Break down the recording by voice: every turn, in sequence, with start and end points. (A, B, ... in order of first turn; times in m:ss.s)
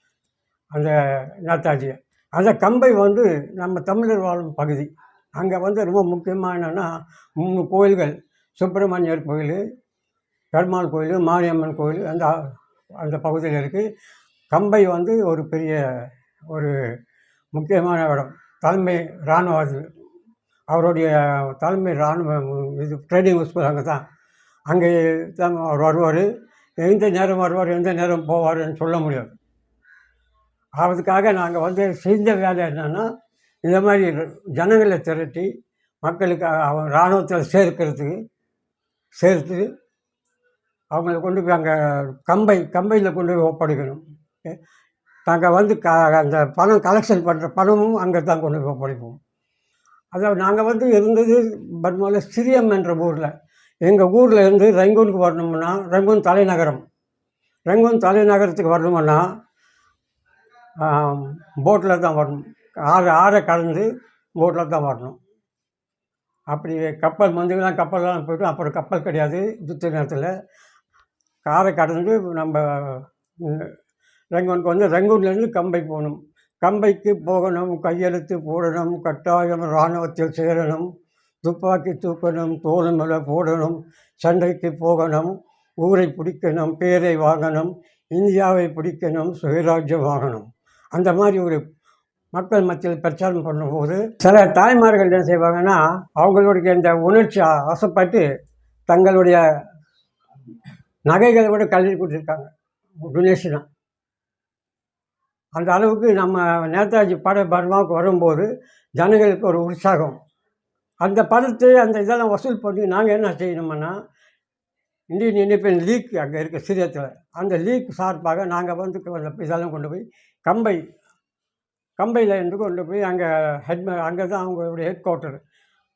0:00.7-0:09.6 A
0:10.5-0:13.8 A
0:14.5-0:16.7 A
0:17.5-0:19.9 A
0:20.7-0:24.0 A
0:24.7-0:26.3 A
0:26.8-0:29.4 A
0:30.8-0:33.1 A
0:33.6-0:35.5 A
0:36.0-0:38.2 A
0:39.2-0:39.7 A
0:40.9-0:44.6 A
0:45.3-0:49.2 A
0:50.1-0:53.3 A
0:53.8-0:56.8 A
0:57.7-0:59.2 A
1:00.8-1:03.9 A
1:04.4-1:05.2 A
1:06.5-1:10.3 A
1:11.4-1:13.7 A
1:14.3-1:20.9 A
1:21.4-1:31.6 A
1:32.3-1:38.2 A
1:38.9-1:39.4 A
1:41.1-1:42.5 A
1:43.0-1:43.6 A
1:45.6-1:50.2 A
1:51.0-1:53.9 A
1:55.1-2:00.8 A
2:02.0-2:05.4 A